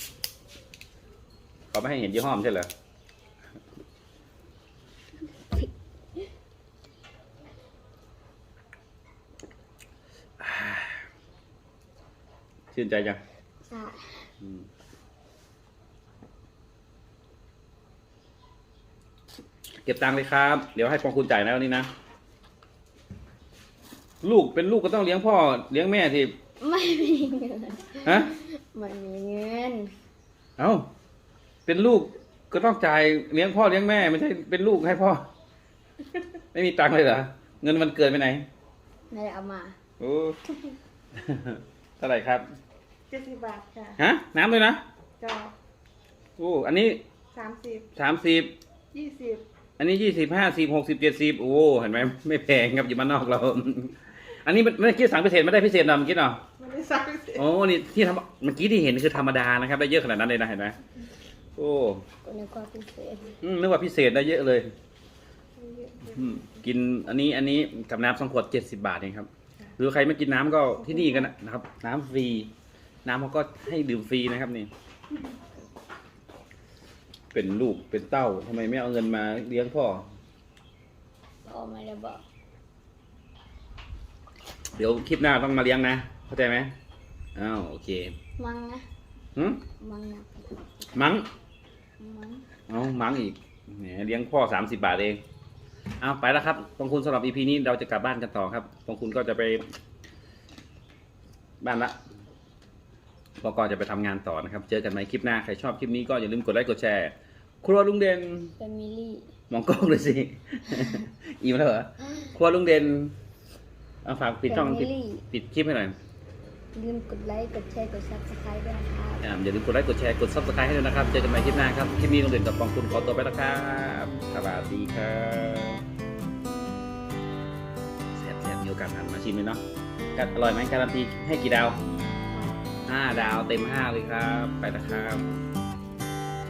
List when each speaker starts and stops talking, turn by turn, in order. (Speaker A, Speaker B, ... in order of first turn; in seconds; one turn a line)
Speaker A: 1.7-2.7
Speaker A: 10.4-11.0
Speaker A: 12.7-13.2
Speaker B: 13.7-14.3
Speaker A: 14.4-14.7
Speaker A: 19.8-21.9
Speaker A: 24.2-26.4
Speaker B: 26.6-29.9
Speaker A: 28.0-28.3
Speaker A: 30.6-30.9
Speaker A: 31.6-35.3
Speaker A: 36.5-38.5
Speaker B: 39.1-39.7
Speaker A: 40.0-40.6
Speaker A: 41.1-42.4
Speaker C: 43.1-44.0
Speaker A: 44.0-44.8
Speaker C: 45.2-45.5
Speaker A: 46.4-47.0
Speaker C: 47.3-47.9
Speaker A: 47.9-48.5
Speaker C: 48.9-49.4
Speaker A: 49.8-56.4
Speaker C: 56.6-57.4
Speaker A: 57.3-60.8
Speaker A: 61.5-62.0
Speaker B: 62.2-63.4
Speaker A: 63.4-64.7
Speaker C: 65.6-66.4
Speaker A: 66.0-72.5
Speaker A: 73.0-74.7
Speaker A: 77.3-80.1
Speaker B: 81.4-82.2
Speaker A: 84.8-86.7
Speaker A: 87.3-88.1
Speaker B: 88.4-88.8
Speaker A: 89.3-89.6
Speaker B: 89.8-90.9
Speaker A: 90.9-91.3
Speaker B: 92.0-92.5
Speaker A: 92.7-95.2
Speaker A: 96.0-99.7
Speaker A: 101.6-102.0
Speaker A: 103.4-108.5
Speaker B: 108.6-109.3
Speaker A: 109.5-113.2
Speaker A: 114.0-116.0
Speaker B: 114.5-115.2
Speaker B: 116.7-119.2
Speaker A: 119.2-125.8
Speaker A: 128.1-129.6
Speaker A: 130.1-131.8
Speaker B: 132.3-132.6
Speaker A: 132.9-135.4